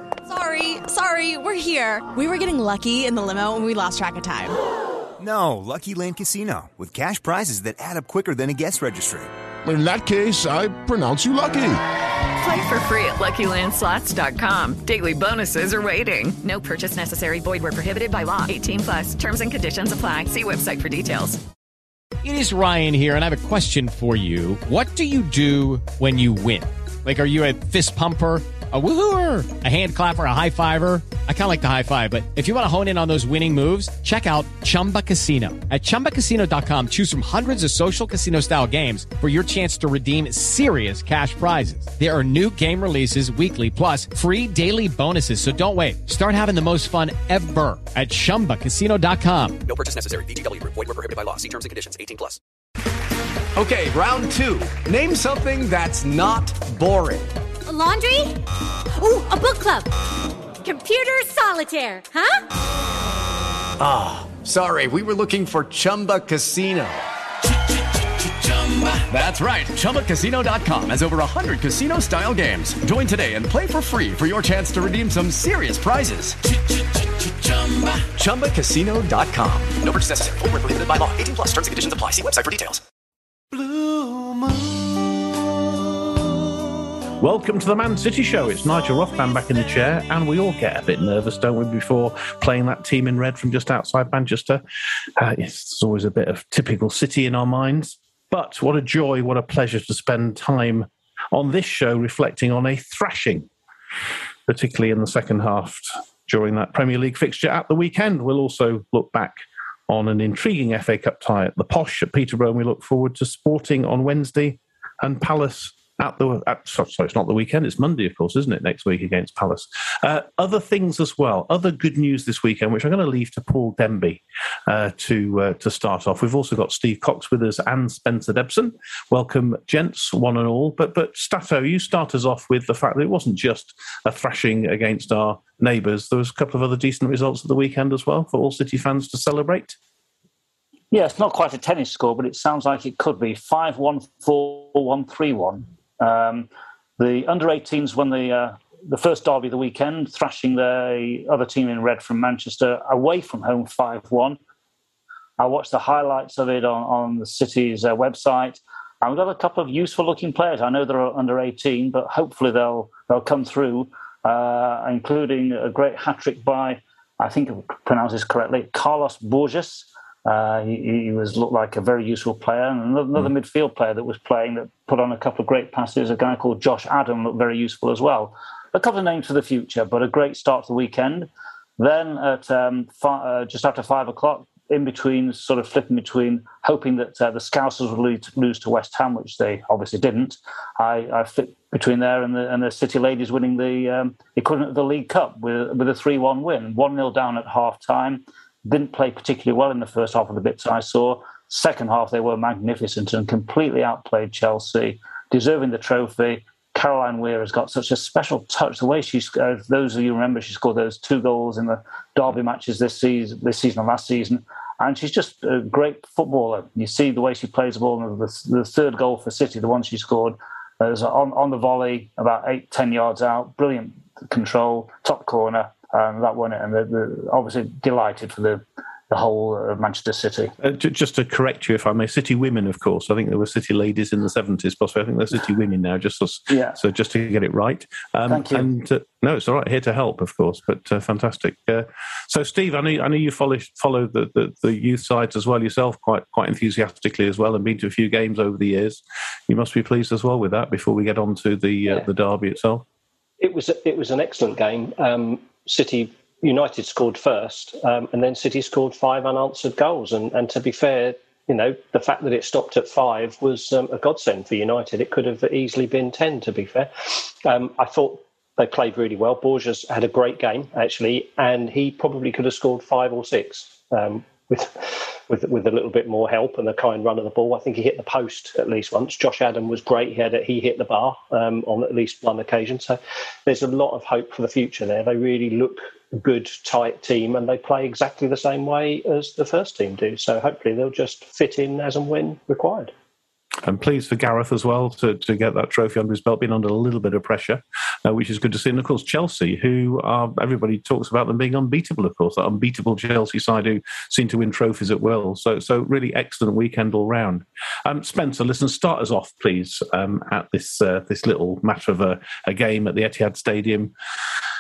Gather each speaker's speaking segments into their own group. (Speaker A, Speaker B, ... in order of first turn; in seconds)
Speaker A: 0.3-4.6
Speaker B: 5.2-9.3
Speaker C: 9.7-11.8
Speaker D: 12.4-21.4
Speaker E: 22.2-49.6
Speaker F: 49.6-52.4, 79.8-82.8
Speaker G: 53.5-57.3, 63.8-67.0, 68.4-76.4, 77.6-79.8
Speaker H: 57.7-58.4, 58.9-59.9, 60.6-62.4
Speaker I: 83.5-84.4, 87.2-94.6, 95.2-103.5, 104.5-139.8, 230.6-252.8, 293.6-313.9
Speaker J: 140.9-154.4, 155.4-230.6, 236.5-236.8, 238.3-238.7
Speaker K: 253.4-292.9